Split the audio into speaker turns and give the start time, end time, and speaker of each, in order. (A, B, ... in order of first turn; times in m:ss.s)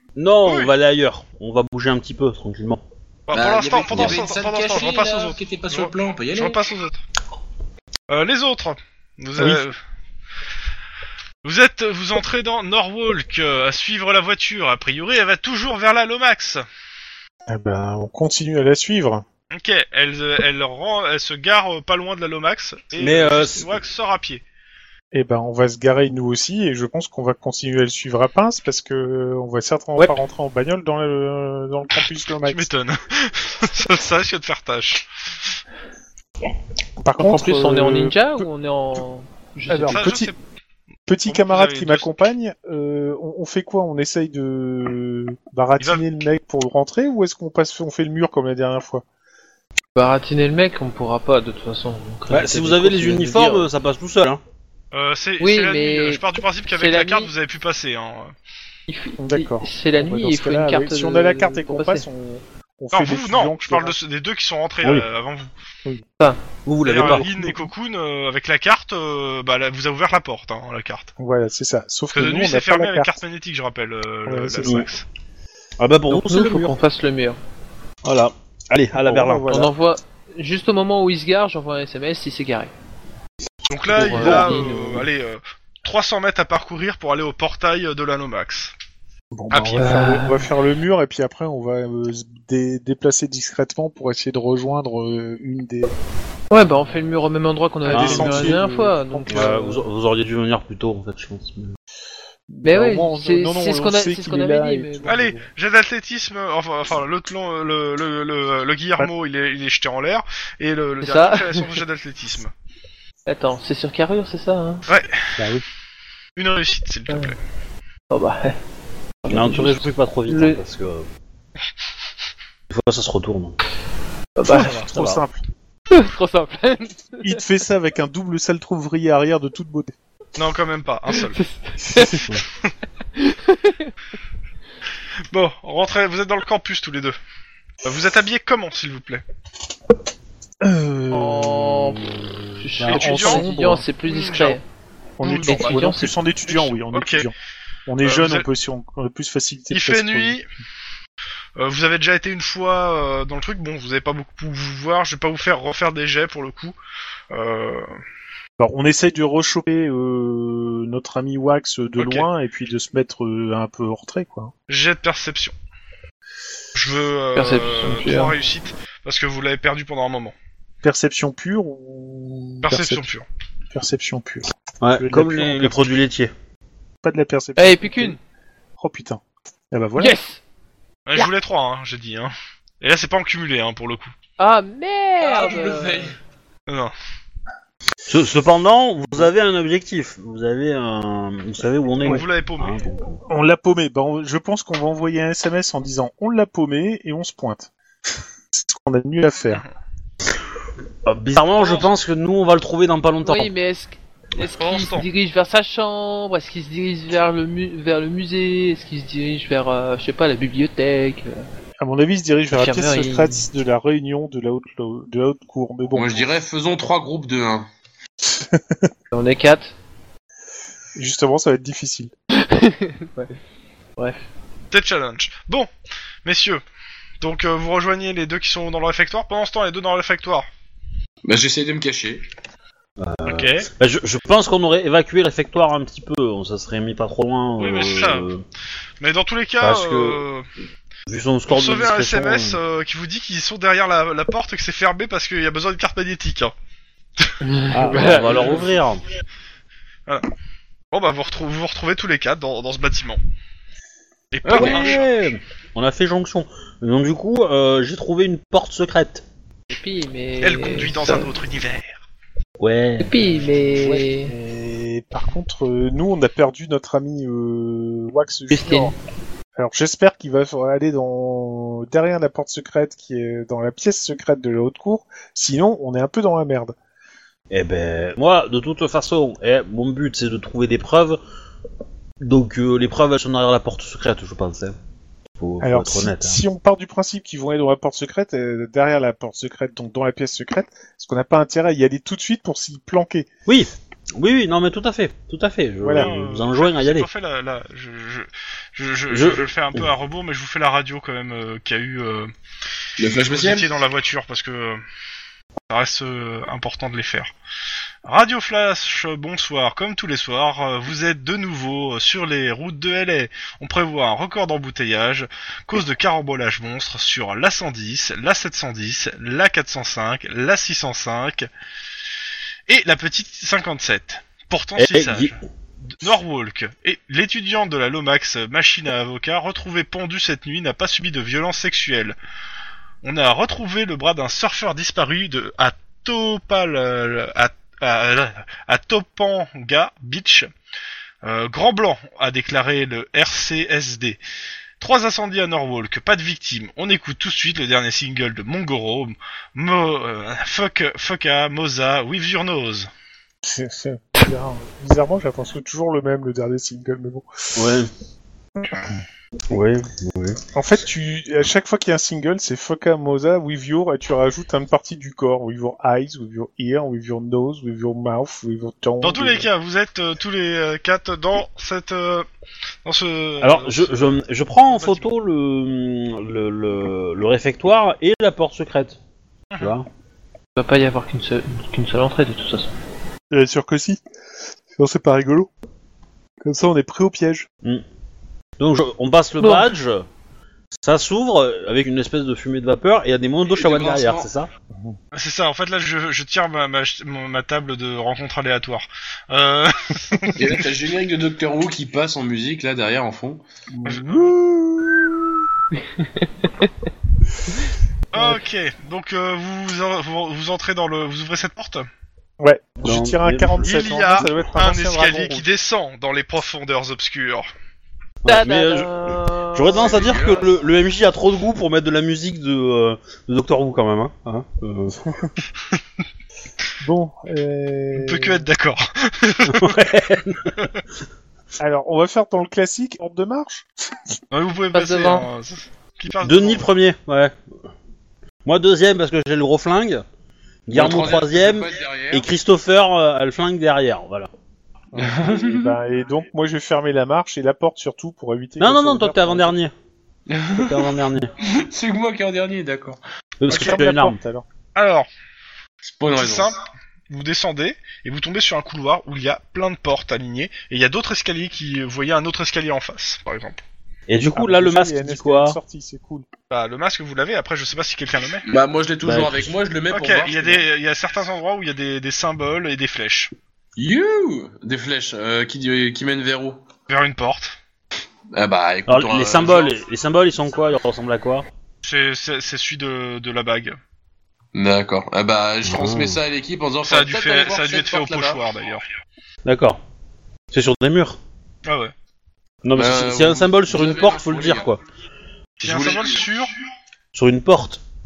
0:00.2-0:02.8 A
0:00.5-0:00.7 B
0:03.3-0:07.0 B
0:03.3-0:06.6 C
0:03.9-0:04.3 A
0:08.1-0:09.8 B
0:11.4-0:16.6 B
0:17.5-0:19.2 D
0:19.5-0:24.4 B
0:23.0-0:23.7 A
0:25.1-0:32.7 D
0:32.4-0:35.0 B
0:37.0-0:38.5 D
0:37.2-0:40.1 E
0:39.7-0:40.3 D
0:39.9-0:40.4 B
0:41.1-0:49.0 D
0:41.2-0:42.2 B
0:45.8-0:46.0 B
0:50.0-0:53.7 E
0:52.3-0:54.4 A
0:54.9-0:58.3 B
0:55.4-0:57.3 E
0:58.9-1:02.0 E
0:59.2-1:04.0 D
1:02.9-1:05.5 B
1:06.7-1:07.3 A
1:06.8-1:11.1 B
1:07.0-1:07.6 D
1:11.2-1:13.2 D
1:12.1-1:15.1 B
1:14.3-1:14.9 D
1:15.8-1:16.8 A
1:16.1-1:17.4 E
1:18.0-1:19.5 A
1:19.0-1:19.7 D
1:19.5-1:22.7 E
1:23.7-1:28.7 B
1:24.0-1:24.8 E
1:24.0-1:25.0 A
1:29.3-1:29.9 A
1:29.5-1:29.9 B
1:29.8-1:35.9 D
1:29.8-1:30.5 E
1:36.5-1:39.8 E
1:37.9-1:39.7 D
1:37.9-1:38.6 A
1:39.3-1:41.8 A
1:42.5-1:45.4 D
1:42.6-1:45.1 E
1:45.1-1:52.5 B
1:51.0-1:51.8 E
1:53.3-1:54.9 E
1:54.9-1:55.4 B
1:55.4-1:55.6 A
1:56.4-1:57.4 B
1:57.1-1:57.3 E
1:58.1-1:58.6 E
1:59.2-2:00.6 E
1:59.3-2:01.1 A
2:02.7-2:03.6 A
2:04.4-2:04.8 E
2:04.5-2:05.4 D
2:04.5-2:05.2 A
2:04.6-2:04.9 B
2:05.9-2:07.4 E
2:07.2-2:10.0 D
2:10.4-2:11.4 B
2:11.1-2:12.3 E
2:13.2-2:13.9 E
2:15.3-2:17.2 B
2:17.8-2:19.2 B
2:20.6-2:21.8 D
2:21.1-2:22.1 E
2:21.7-2:23.1 A
2:22.6-2:24.6 E
2:22.8-2:23.9 D
2:22.9-2:23.5 B
2:24.1-2:24.6 B
2:25.2-2:27.3 D
2:25.2-2:25.8 B
2:25.4-2:26.2 E
2:26.5-2:27.3 B
2:27.9-2:30.4 D
2:28.0-2:28.5 B
2:29.7-2:30.4 B
2:31.6-2:36.8 B
2:37.3-2:37.9 B
2:38.6-2:44.5 D
2:42.0-2:42.3 B
2:44.7-2:45.6 B
2:46.8-2:50.4 B
2:47.4-2:48.4 E
2:50.8-2:53.0 D
2:52.6-2:53.3 B
2:53.7-2:55.9 D
2:54.8-2:56.3 A
2:57.0-2:58.2 D
2:57.6-2:58.2 E
2:58.8-3:00.2 D
3:00.0-3:00.4 E
3:01.1-3:04.1 B
3:04.4-3:06.1 E
3:05.2-3:06.2 C
3:06.7-3:06.9 B
3:08.1-3:13.2 A
3:12.0-3:12.9 B
3:13.3-3:17.7 D
3:18.5-3:19.6 D
3:21.0-3:23.5 A
3:21.6-3:21.9 B
3:23.2-3:31.4 E
3:24.4-3:25.1 B
3:31.8-3:36.3 D
3:32.5-3:33.4 E
3:35.9-3:37.7 C
3:38.2-3:38.9 D
3:39.1-3:39.7 E
3:41.0-3:42.1 D
3:42.3-3:43.3 E
3:44.7-3:45.7 B
3:46.2-3:46.6 B
3:47.2-3:50.5 B
3:51.2-3:52.2 C
3:53.0-3:58.4 A
3:53.2-3:53.7 B
3:57.6-3:58.3 B
3:59.0-4:00.5 B
3:59.6-4:00.2 A
4:01.1-4:02.6 A
4:01.5-4:06.5 B
4:07.4-4:08.7 E
4:07.7-4:09.0 A
4:10.9-4:13.2 B
4:14.3-4:15.1 B
4:14.4-4:15.0 C
4:14.5-4:19.2 A
4:19.7-4:21.3 E
4:20.4-4:22.0 B
4:22.6-4:23.4 A
4:23.0-4:24.3 E
4:23.8-4:28.9 D
4:28.5-4:29.0 E
4:29.6-4:36.8 D
4:37.5-4:41.2 A
4:42.2-4:44.8 A
4:45.4-4:46.4 A
4:45.6-4:53.3 D
4:53.5-4:57.1 A
4:55.8-4:56.1 D
4:56.0-5:02.3 B
4:59.1-4:59.8 A
5:03.0-5:03.7 C
5:03.2-5:04.8 B
5:05.7-5:07.3 B
5:08.0-5:21.5 B
5:22.7-5:25.4 B
5:24.8-5:25.3 A
5:25.9-5:32.2 B
5:33.0-5:40.5 B
5:41.2-5:44.2 B
5:44.8-5:52.9 B
5:53.4-5:57.6 D
5:57.6-5:57.9 A
5:59.5-6:00.4 A
6:00.5-6:09.5 D
6:09.0-6:12.3 B
6:12.8-6:15.1 B
6:13.4-6:19.0 A
6:19.5-6:19.8 B
6:19.6-6:19.9 A
6:20.6-6:22.7 E
6:23.3-6:24.0 D
6:24.7-6:25.5 D
6:26.4-6:27.5 D
6:28.6-6:30.0 A
6:29.4-6:29.7 E
6:30.8-6:34.5 A
6:33.5-6:34.3 C
6:35.1-6:40.5 B
6:40.4-6:43.4 C
6:43.7-6:45.5 D
6:43.9-6:44.3 B
6:45.8-6:46.7 E
6:48.1-6:51.9 B
6:52.4-6:55.5 D
6:52.8-6:54.5 A
6:53.6-6:57.5 B
6:58.2-7:05.1 A
6:58.3-7:00.2 E
6:59.8-7:00.5 C
7:06.8-7:08.5 D
7:08.0-7:09.9 B
7:09.5-7:10.7 A
7:11.6-7:13.7 D
7:14.3-7:16.7 B
7:14.7-7:15.3 E
7:16.2-7:17.3 A
7:18.4-7:20.0 A
7:20.7-7:24.3 A
7:20.7-7:22.3 C
7:24.9-7:29.6 D
7:25.0-7:25.7 C
7:28.6-7:29.7 A
7:30.3-7:33.0 C
7:30.6-7:31.3 A
7:33.4-7:34.2 A
7:33.5-7:34.4 D
7:34.8-7:35.1 B
7:35.8-7:36.5 C
7:36.1-7:43.6 B
7:44.1-7:45.6 A
7:44.3-7:46.3 D
7:46.5-7:48.5 B
7:48.5-7:50.6 C
7:49.0-7:49.5 A
7:49.9-7:53.3 B
7:53.8-7:56.6 C
7:56.9-7:57.6 B
7:58.3-7:59.7 C
7:58.9-8:01.5 A
8:01.8-8:03.8 B
8:04.5-8:08.4 C
8:05.6-8:06.2 A
8:06.8-8:08.8 B
8:09.4-8:09.8 A
8:10.5-8:11.2 A
8:11.7-8:11.9 B
8:12.6-8:14.8 A
8:12.8-8:14.7 C
8:15.6-8:16.5 B
8:15.6-8:16.3 C
8:17.1-8:17.8 A